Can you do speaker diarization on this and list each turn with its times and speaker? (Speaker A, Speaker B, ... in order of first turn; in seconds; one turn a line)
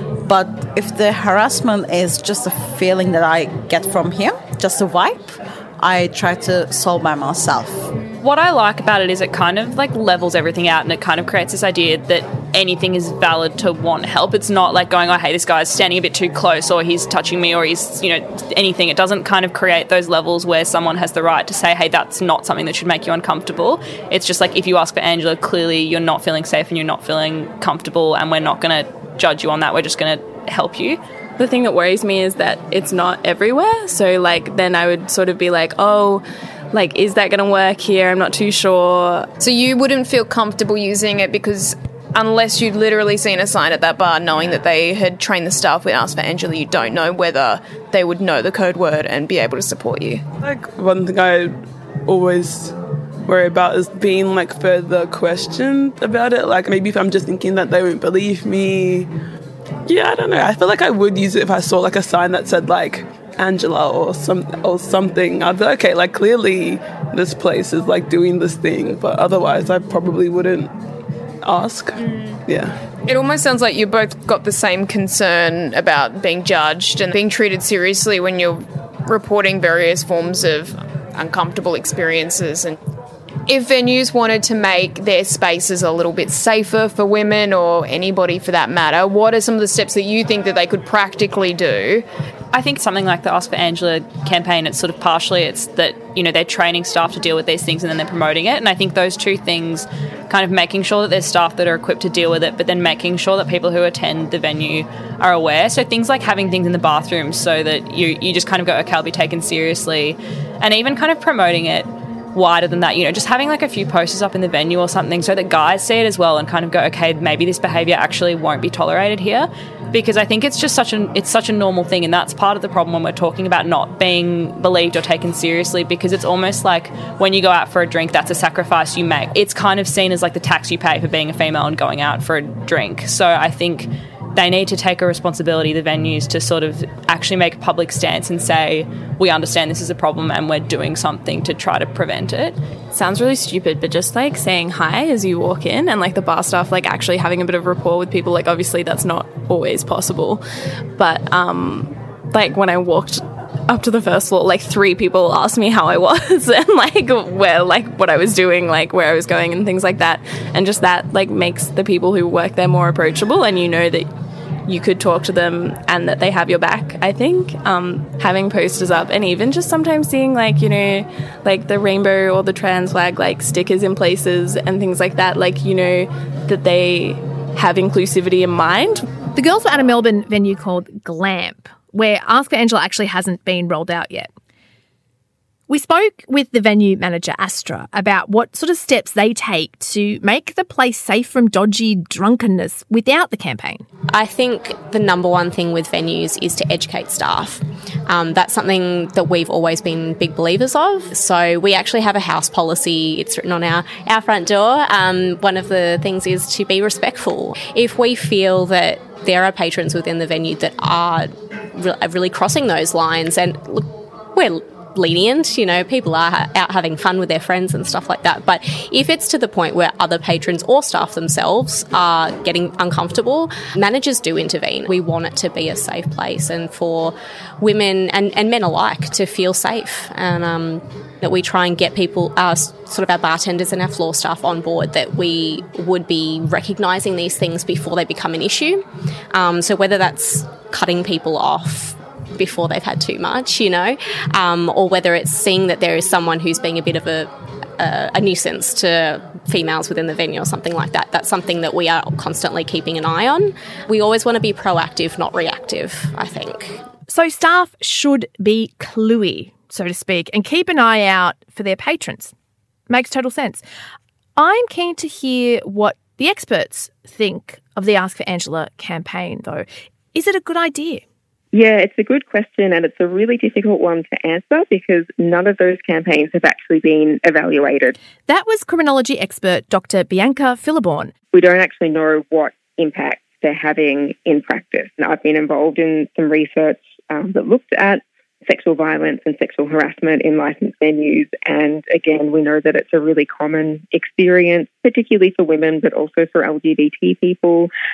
Speaker A: 0.2-7.9
Speaker B: 8.2-31.0
Speaker C: 31.4-39.3
Speaker D: 39.4-50.2
Speaker E: 50.4-52.7
Speaker E: 53.3-59.1
Speaker E: 59.9-70.7
Speaker E: 71.4-72.8
Speaker D: 73.0-82.8
Speaker D: 83.5-92.0
Speaker B: 92.5-142.6
Speaker C: 142.9-150.4
Speaker C: 150.9-164.1
Speaker C: 164.7-179.1
Speaker F: 179.3-184.3
Speaker F: 185.7-193.8
Speaker G: 194.1-256.8
Speaker F: 257.1-262.3
Speaker F: 262.9-263.6
Speaker F: 264.4-271.0
Speaker H: 271.5-278.0
Speaker F: 278.3-281.1
Speaker H: 281.3-297.7